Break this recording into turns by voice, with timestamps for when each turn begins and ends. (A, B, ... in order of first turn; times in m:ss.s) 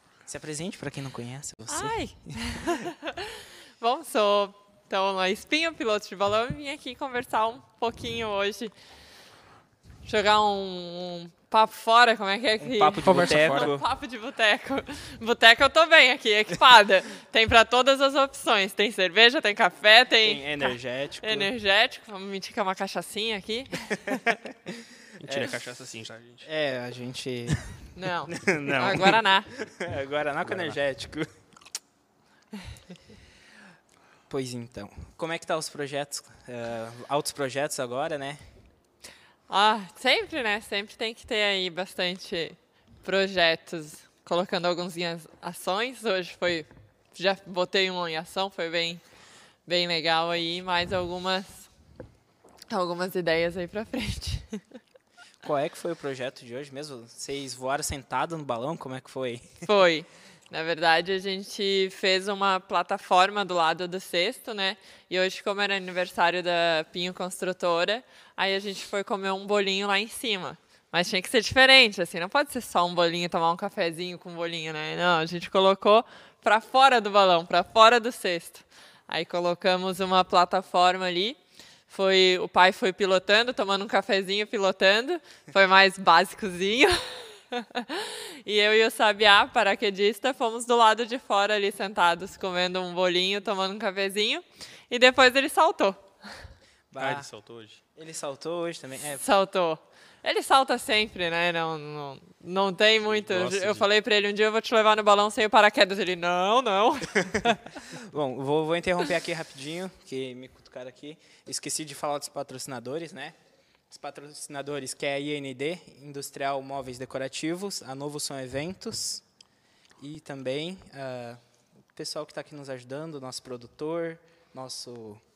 0:00.3-0:02.9 A
0:01.7-0:08.7 B
0:10.0-0:24.4 B
0:12.6-0:13.8 A
0:13.0-0:13.7 C
0:20.2-0:21.5 A
0:23.9-0:25.6 A
0:25.2-0:26.4 C
0:26.4-0:31.3 A
0:28.0-0:29.5 B
0:30.4-0:30.8 C
0:34.3-0:38.4 A
0:39.5-0:49.0 B
0:49.7-0:51.7 B
0:52.7-0:54.6 B
0:55.4-0:59.7 A
0:59.7-1:21.4 B
1:21.9-1:36.1 B
1:36.9-1:37.3 A
1:37.0-1:37.8 C
1:38.0-1:39.2 A
1:39.2-1:47.6 B
1:43.0-1:43.9 C
1:47.9-1:53.4 A
1:53.9-1:59.2 A
2:00.0-2:01.4 A
2:02.0-2:05.2 A